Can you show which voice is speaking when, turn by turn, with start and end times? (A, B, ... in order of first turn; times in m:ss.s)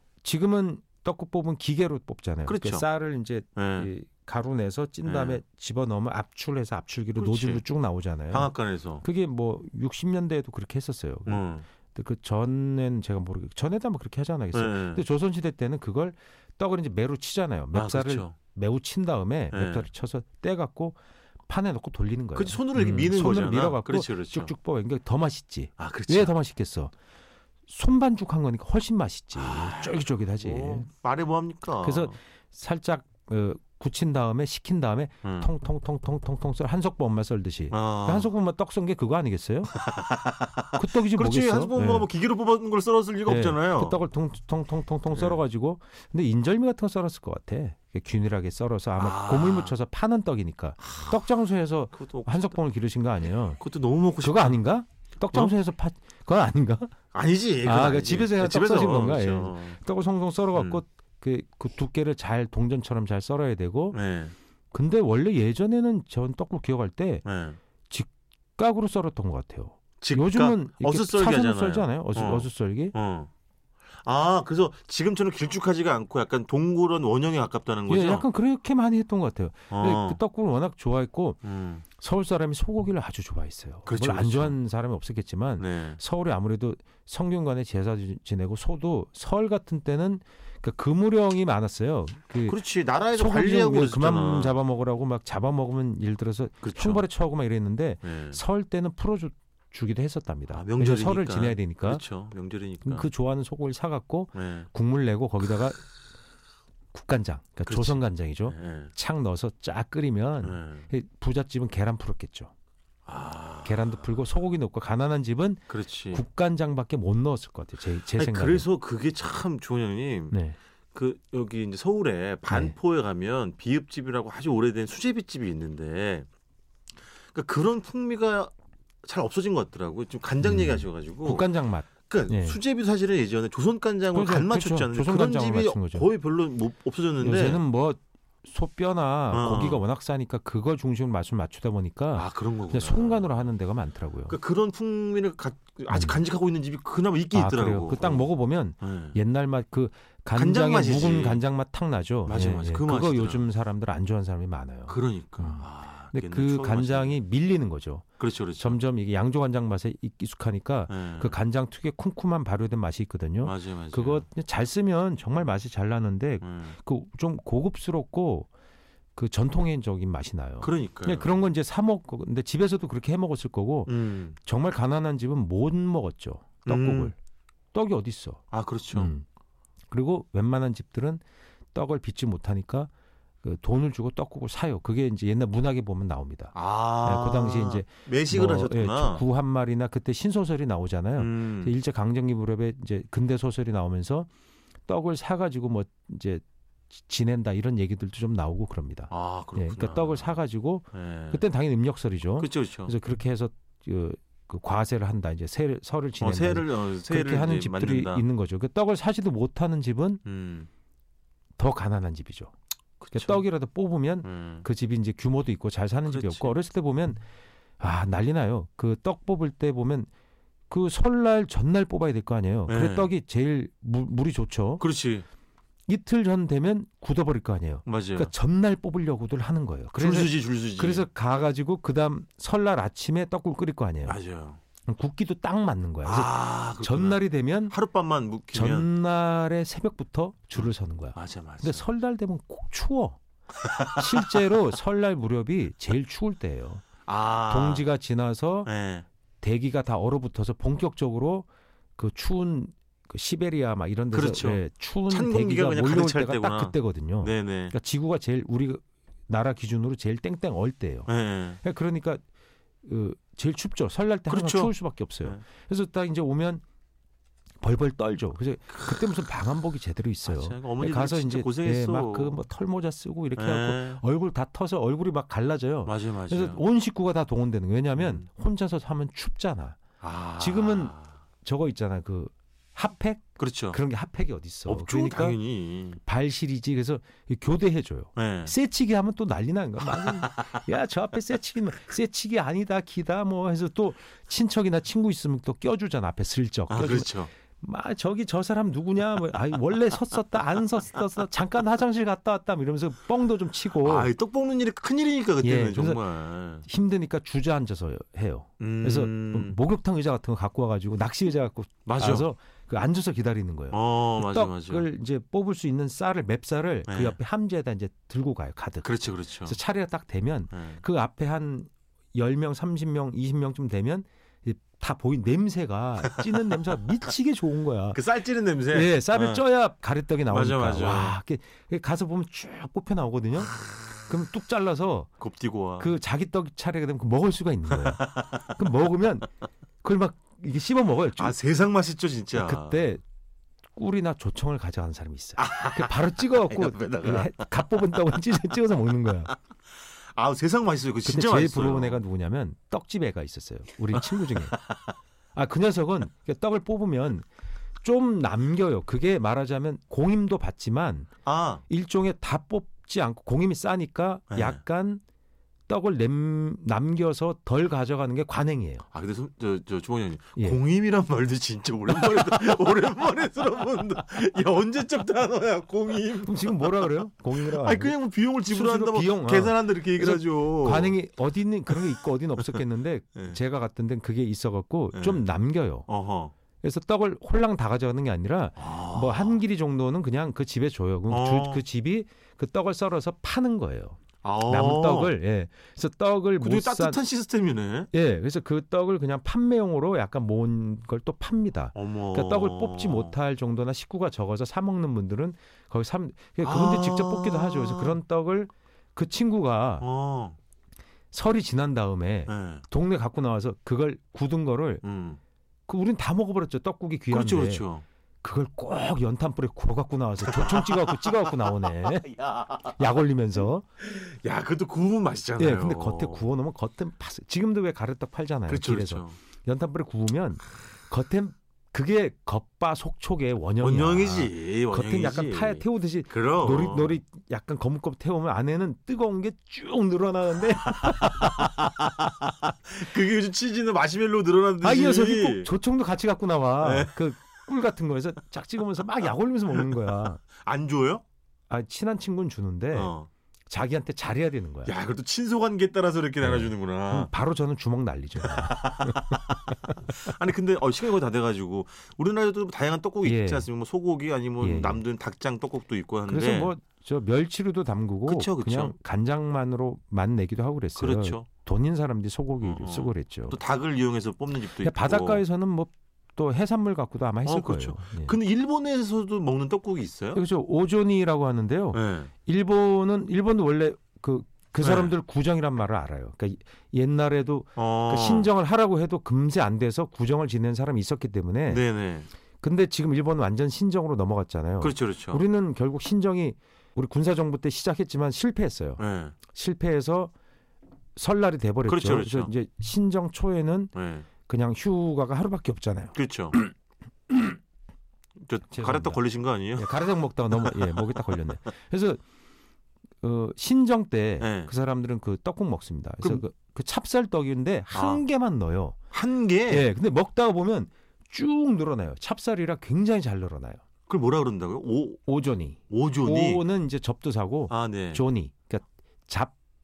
0:00.2-0:08.5 A
0:02.5-0:02.9 B
0:03.6-0:03.9 B
0:05.0-0:05.4 B
0:07.2-0:07.6 B
0:08.3-0:09.0 B
0:09.0-0:26.9 A
0:11.3-0:11.7 B
0:14.5-0:15.0 B
0:17.7-0:18.4 B
0:19.5-0:19.9 B
0:22.4-0:24.5 B
0:25.8-0:26.4 B
0:27.7-0:30.9 A
0:29.4-0:32.2 B
0:31.8-0:39.8 A
0:35.2-0:35.5 B
0:37.7-0:38.3 B
0:39.8-0:44.0 B
0:40.8-0:42.1 A
0:43.3-0:53.6 A
0:45.1-0:45.4 B
0:49.0-0:49.8 B
0:50.8-0:51.2 B
0:51.9-0:52.6 B
0:53.6-0:54.6 B
0:54.2-0:56.9 A
0:57.1-0:59.8 B
0:57.6-1:04.0 A
1:00.6-1:00.8 B
1:03.9-1:04.4 B
1:04.7-1:07.2 A
1:07.2-1:07.6 B
1:07.9-1:13.0 A
1:10.0-1:13.3 B
1:14.0-1:18.3 B
1:17.9-1:21.4 A
1:19.7-1:20.2 B
1:21.4-1:21.8 B
1:22.0-1:32.6 A
1:23.9-1:24.6 B
1:25.6-1:26.0 B
1:32.4-1:34.5 B
1:33.2-1:42.0 A
1:36.6-1:37.0 B
1:38.0-1:38.4 B
1:40.5-1:43.1 B
1:42.8-1:45.8 A
1:44.4-1:44.7 B
1:46.9-1:52.5 A
1:47.7-1:48.9 B
1:50.4-1:50.9 B
1:53.1-1:54.0 B
1:53.6-1:58.7 A
1:55.7-1:56.2 B
1:58.1-2:00.4 B
2:00.3-2:00.6 A
2:00.9-2:06.3 B
2:02.5-2:02.8 A
2:07.3-2:08.5 B
2:09.0-2:11.5 B
2:10.4-2:12.6 A
2:12.1-2:17.6 B
2:14.1-2:16.1 A
2:17.2-2:24.4 A
2:19.3-2:19.8 B
2:22.1-2:23.5 B
2:24.3-2:28.3 B
2:25.9-2:26.2 A
2:27.3-2:38.0 A
2:28.8-2:29.2 B
2:30.4-2:31.4 B
2:32.2-2:33.4 B
2:34.9-2:37.2 B
2:38.2-2:38.8 B
2:38.6-2:48.5 A
2:40.9-2:41.4 B
2:43.4-2:44.3 B
2:46.4-2:46.8 B
2:49.2-2:57.2 A
2:50.6-2:51.4 B
2:53.9-2:54.4 B
2:56.6-2:57.1 B
2:57.7-2:59.2 A
2:58.5-2:59.1 B
2:59.9-3:01.2 A
3:01.7-3:02.9 A
3:03.4-3:14.3 A
3:06.5-3:09.2 B
3:11.2-3:11.8 B
3:14.9-3:30.2 A
3:19.1-3:20.4 B
3:20.9-3:21.4 B
3:22.4-3:22.9 B
3:26.2-3:28.2 B
3:30.3-3:30.7 B
3:31.6-3:32.5 A
3:33.0-3:33.4 B
3:33.1-3:37.2 A
3:34.2-3:34.7 B
3:36.1-3:36.6 B
3:37.8-3:40.1 A
3:40.7-3:44.8 A
3:42.7-3:43.1 B
3:44.8-3:45.2 B
3:45.9-3:54.2 A
3:47.9-3:48.3 B
3:50.0-3:51.1 B
3:54.1-3:54.6 B
3:54.9-3:57.8 A
3:56.0-3:57.2 B
3:57.7-3:58.9 B
3:58.5-4:03.2 A
4:00.6-4:01.9 B
4:03.6-4:04.4 B
4:04.0-4:06.8 A
4:07.1-4:07.9 B
4:07.5-4:08.7 A
4:08.7-4:09.1 B
4:09.4-4:21.1 A
4:14.1-4:17.8 B
4:21.1-4:21.6 B
4:21.6-4:22.2 A
4:22.8-4:26.6 A
4:24.3-4:24.7 B
4:27.6-4:39.8 A
4:28.7-4:29.0 B
4:30.2-4:32.4 B
4:33.4-4:34.0 B
4:35.8-4:36.6 B
4:38.0-4:38.3 B
4:40.0-4:41.2 B
4:40.4-4:45.4 A
4:43.4-4:43.8 B
4:44.7-4:46.0 B
4:46.0-5:04.1 A
4:48.2-4:48.6 B
4:50.0-4:50.6 B
4:56.7-4:57.3 B
5:03.8-5:06.7 B
5:05.4-5:06.0 A
5:06.6-5:18.9 A
5:08.6-5:09.6 B
5:11.9-5:12.3 B
5:13.7-5:14.9 B
5:16.9-5:17.2 B
5:18.8-5:19.6 B
5:19.5-5:28.0 A
5:20.5-5:20.8 B
5:26.1-5:26.6 B
5:27.9-5:29.4 B
5:28.7-5:35.1 A
5:30.3-5:31.2 B
5:35.2-5:35.9 B
5:35.8-5:39.3 A
5:37.7-5:38.6 B
5:39.8-5:41.4 A
5:41.2-5:42.9 B
5:42.3-5:43.0 A
5:43.8-5:49.4 A
5:45.4-5:47.4 B
5:50.1-5:52.0 B
5:51.0-5:54.6 A
5:53.9-5:54.9 B
5:55.4-5:57.3 A
5:57.8-6:01.1 A
6:01.2-6:01.6 B
6:01.7-6:05.0 A
6:04.3-6:04.6 B
6:05.7-6:08.9 A
6:08.9-6:21.0 B
6:16.2-6:25.9 A
6:24.9-6:25.2 B
6:25.9-6:26.3 B
6:26.6-6:37.0 A
6:28.6-6:29.4 B
6:31.1-6:31.6 B
6:34.2-6:35.2 B
6:36.4-6:37.9 B
6:37.9-6:49.9 A
6:41.8-6:43.1 B
6:46.4-6:48.0 B
6:49.8-6:50.4 B
6:51.1-6:54.8 A
6:52.3-6:52.6 B
6:54.8-6:55.2 B
6:55.7-6:57.7 A
6:57.1-6:57.8 B
6:58.2-7:03.6 A
7:00.2-7:02.8 B
7:03.8-7:06.3 B
7:05.4-7:21.5 A
7:08.5-7:09.2 B
7:13.6-7:17.0 B
7:20.8-7:25.5 B
7:24.6-7:30.2 A
7:26.6-7:27.0 B
7:30.4-7:31.0 B
7:31.5-7:32.9 A
7:32.7-7:33.1 B
7:33.5-7:34.7 A
7:34.7-7:37.1 B
7:36.2-7:39.2 A
7:38.2-7:46.6 B
7:43.0-7:43.5 A
7:44.4-7:44.8 A
7:46.1-7:53.4 A
7:48.1-7:48.7 B
7:50.8-7:51.3 B
7:52.4-7:55.2 B
7:54.6-7:58.2 A
7:57.2-8:00.2 B
8:00.1-8:11.6 A
8:01.7-8:02.1 B
8:04.6-8:04.9 B
8:07.6-8:08.3 B
8:11.5-8:12.1 B
8:12.4-8:18.8 A
8:14.6-8:15.2 B
8:18.8-8:19.2 B
8:19.3-8:20.1 A
8:21.0-8:23.7 A
8:21.7-8:22.3 B
8:23.8-8:24.1 B
8:24.3-8:26.5 A
8:25.9-8:26.4 B
8:28.2-8:29.9 B
8:28.5-8:29.0 A
8:29.6-8:32.0 A
8:30.4-8:30.7 B
8:33.0-8:38.8 A
8:34.2-8:34.5 B
8:37.7-8:38.0 B
8:38.9-8:39.7 B
8:39.5-8:43.6 A
8:43.9-8:45.0 B
8:45.1-8:49.4 A
8:45.7-8:46.4 B
8:47.5-8:48.0 B